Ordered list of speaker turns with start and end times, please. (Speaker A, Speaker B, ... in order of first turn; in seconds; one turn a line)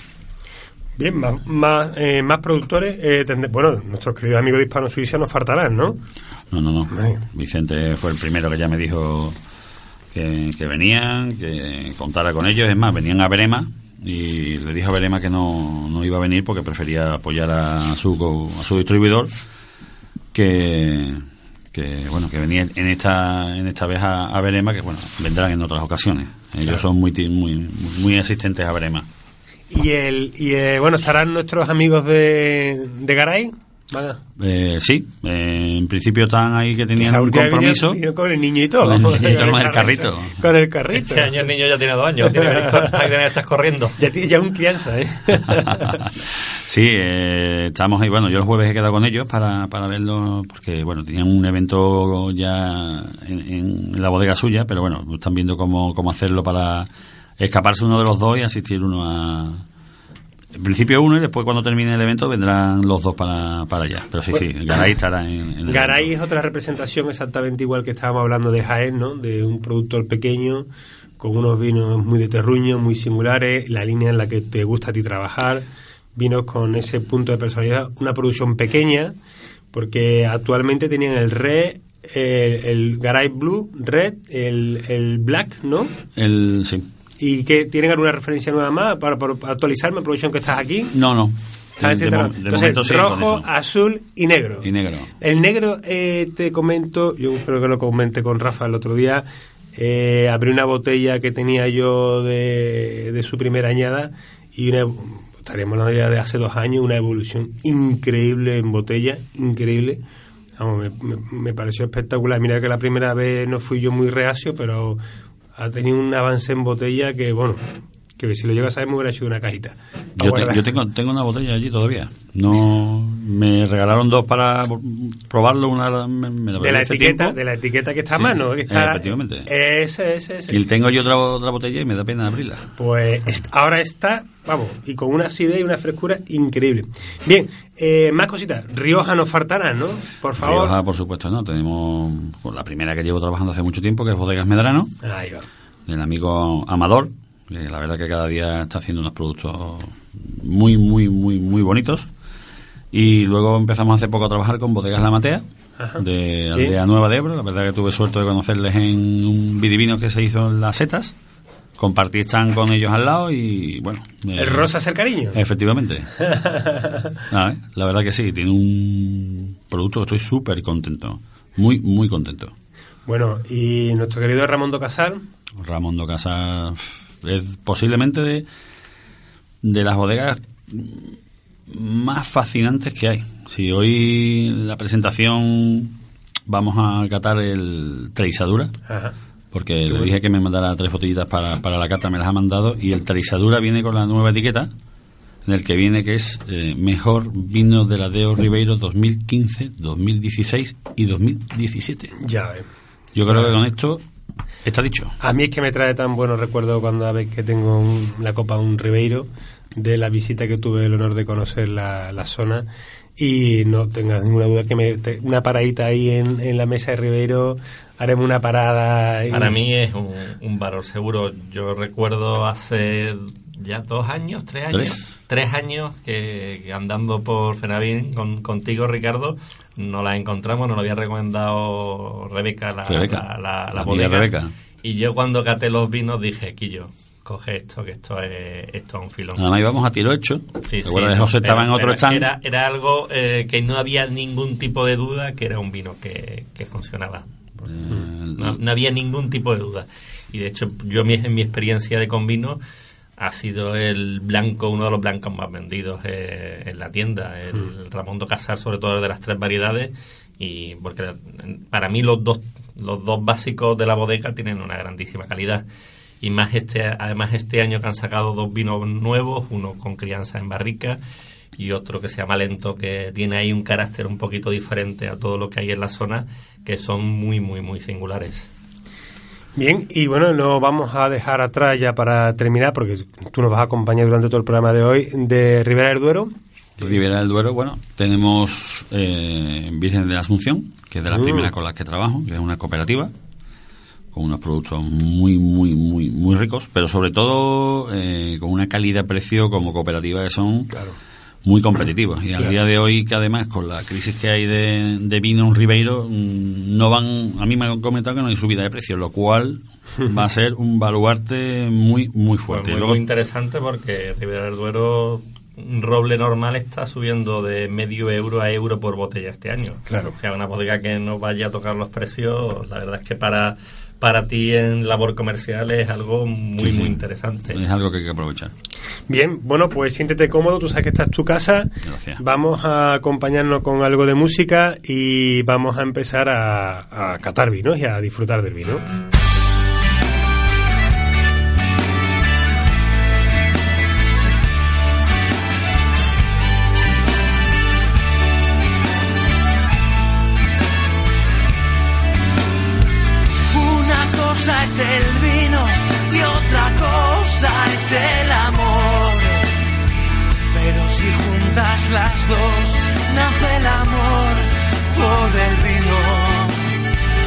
Speaker A: 1.0-6.0
Speaker B: 6.5-9.3
Speaker A: 6.9-7.2
Speaker B: 10.1-19.3
Speaker B: 20.3-29.1
Speaker A: 29.7-34.2
Speaker B: 34.4-38.0
Speaker A: 37.0-41.5
Speaker B: 38.8-40.4
Speaker C: 40.9-44.0
Speaker A: 42.2-43.0
Speaker A: 44.0-46.0
Speaker B: 45.5-56.9
Speaker B: 57.4-59.6
Speaker B: 60.5-66.1
Speaker A: 65.7-70.7
Speaker A: 71.2-79.2
Speaker A: 79.7-86.0
Speaker B: 86.2-86.9
Speaker A: 87.2-91.0
Speaker B: 90.9-93.4
Speaker A: 91.8-94.7
Speaker B: 94.6-95.1
Speaker A: 95.2-110.0
Speaker A: 110.6-115.0
Speaker A: 115.5-120.7
Speaker B: 120.2-127.4
Speaker A: 126.6-130.7
Speaker B: 128.1-129.5
Speaker B: 130.5-132.7
Speaker A: 132.8-140.7
Speaker B: 140.4-144.9
Speaker A: 145.0-145.4
Speaker B: 145.9-152.1
Speaker B: 152.9-155.4
Speaker B: 156.0-161.1
Speaker B: 161.8-164.7
Speaker A: 164.3-165.4
Speaker B: 165.3-166.1
Speaker A: 166.2-167.2
Speaker B: 167.3-172.5
Speaker A: 173.1-175.2
Speaker B: 175.6-178.4
Speaker B: 179.6-181.2
Speaker B: 181.7-185.9
Speaker B: 186.5-188.7
Speaker A: 188.9-189.2
Speaker B: 189.5-194.7
Speaker A: 189.9-190.1
Speaker B: 195.4-202.1
Speaker A: 202.2-202.7
Speaker B: 203.1-204.0
Speaker A: 203.3-203.5
Speaker B: 204.6-205.2
Speaker A: 205.2-219.6
Speaker C: 219.3-239.4
Speaker B: 224.7-225.0
Speaker B: 232.9-234.5
Speaker B: 239.4-242.3
Speaker C: 240.6-247.3
Speaker B: 247.7-248.6
Speaker C: 248.4-252.6
Speaker C: 253.2-265.6
Speaker C: 266.2-271.0
Speaker C: 271.6-278.5
Speaker A: 279.6-287.0
Speaker B: 286.8-293.1
Speaker A: 291.1-291.5
Speaker B: 294.1-300.8
Speaker B: 301.4-313.0
Speaker C: 312.5-327.6
Speaker A: 319.9-320.1
Speaker B: 326.6-327.0
Speaker B: 327.5-328.5
Speaker A: 329.1-338.9
Speaker B: 331.8-332.2
Speaker D: 353.5-359.5
Speaker D: 360.5-366.6